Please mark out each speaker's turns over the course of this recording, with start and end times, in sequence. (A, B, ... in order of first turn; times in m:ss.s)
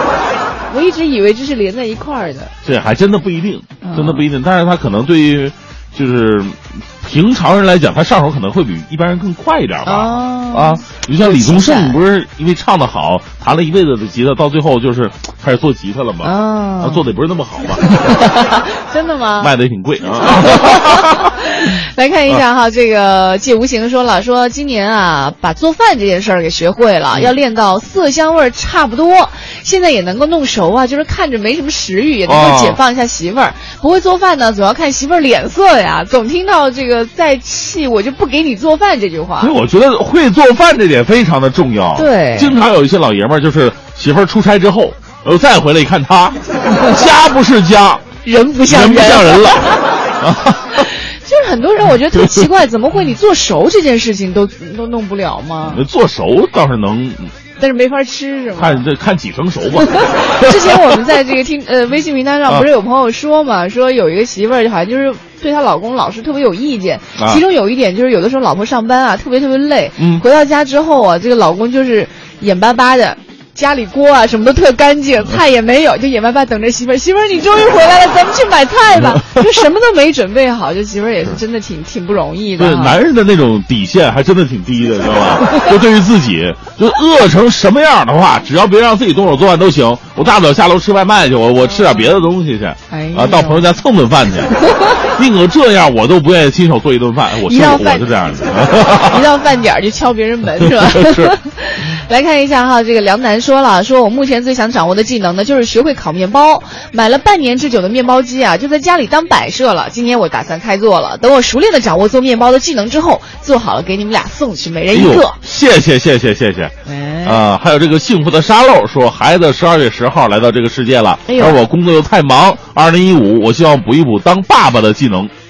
0:00.7-0:02.5 A
0:02.6-0:18.2 B
0:03.8-0:04.3 A
0:09.8-0:12.0 A
0:16.2-0:17.1 A
0:17.8-0:19.5 A
0:19.4-0:21.3 B
0:20.2-0:39.6 A
0:32.3-0:32.8 B
0:39.4-0:48.0 B
0:42.0-0:42.6 A
0:48.2-0:49.9 A
0:48.6-0:50.9 B
0:50.8-0:55.8 A
0:52.1-0:52.5 B
0:55.6-0:57.3 B
0:57.6-0:58.9 A
0:58.6-1:01.1 B
0:59.8-1:23.0 A
1:07.2-1:07.4 B
1:10.0-1:10.2 B
1:18.9-1:19.4 B
1:22.6-1:39.3 B
1:31.7-1:32.1 A
1:32.9-1:33.7 A
1:34.7-1:35.1 A
1:37.4-1:38.1 A
1:38.7-1:55.4 A
1:40.6-1:41.4 B
1:54.9-2:05.3 B
1:56.8-1:57.5 A
2:01.3-2:01.6 A